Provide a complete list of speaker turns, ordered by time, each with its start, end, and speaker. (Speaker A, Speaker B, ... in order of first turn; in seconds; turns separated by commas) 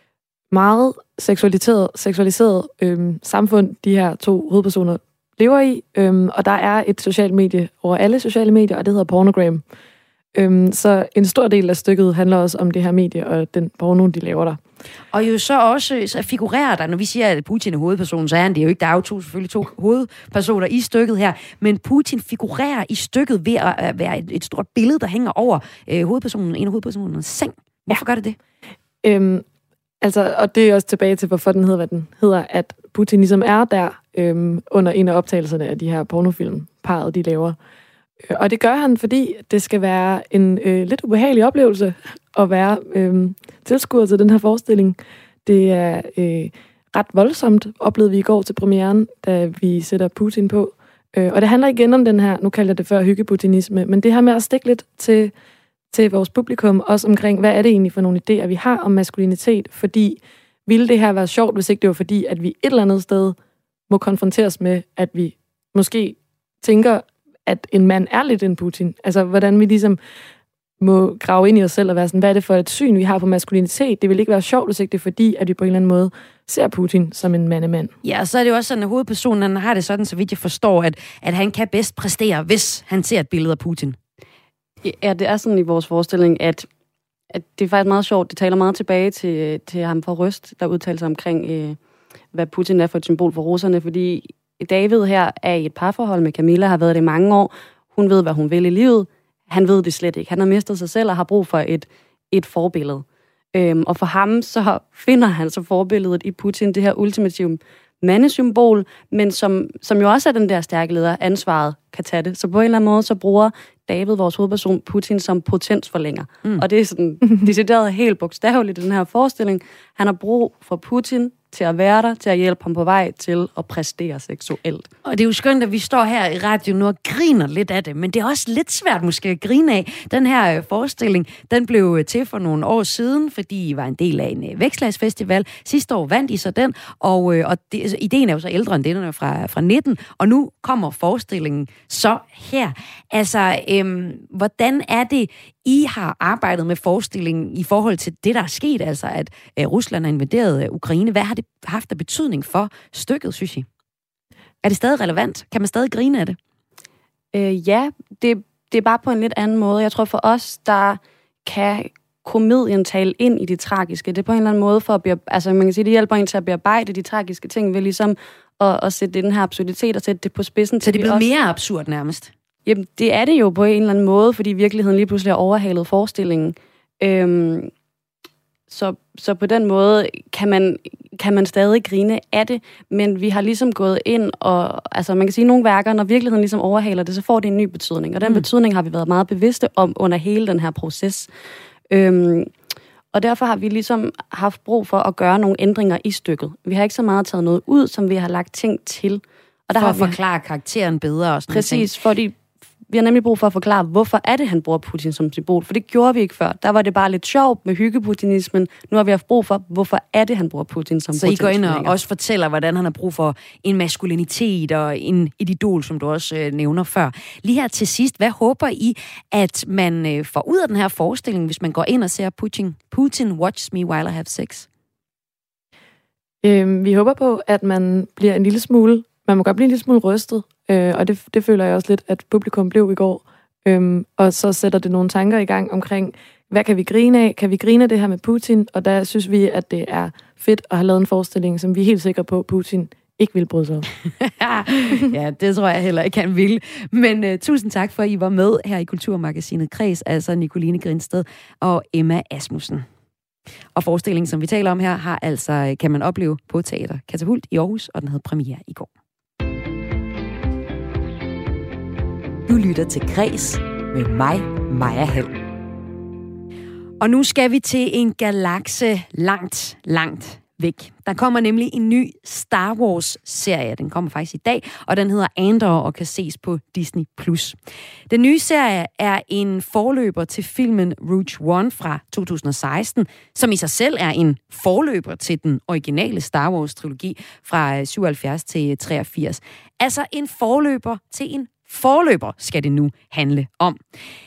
Speaker A: 0.5-9.6, Speaker A: 10.3-14.6, Speaker B: 15.1-28.4, Speaker A: 29.0-29.4, Speaker A: 30.0-37.6, Speaker A: 38.3-55.3, Speaker A: 55.9-63.4, Speaker A: 63.9-70.0, Speaker A: 70.8-77.9, Speaker B: 78.0-84.0, Speaker C: 84.8-86.7, Speaker C: 87.3-91.8, Speaker C: 92.3-124.9, Speaker B: 125.0-153.7, Speaker B: 154.6-156.4, Speaker C: 157.3-171.2, Speaker B: 170.8-172.3, Speaker C: 172.7-177.7, Speaker C: 178.7-191.3, Speaker C: 191.9-192.5, Speaker C: 193.1-200.2, Speaker B: 199.8-201.9, Speaker C: 201.5-211.9, Speaker B: 211.1-224.7, Speaker A: 226.4-243.9, Speaker B: 244.2-252.9, Speaker B: 253.8-258.9, Speaker B: 262.5-265.3, Speaker B: 267.0-277.6, Speaker B: 278.1-293.8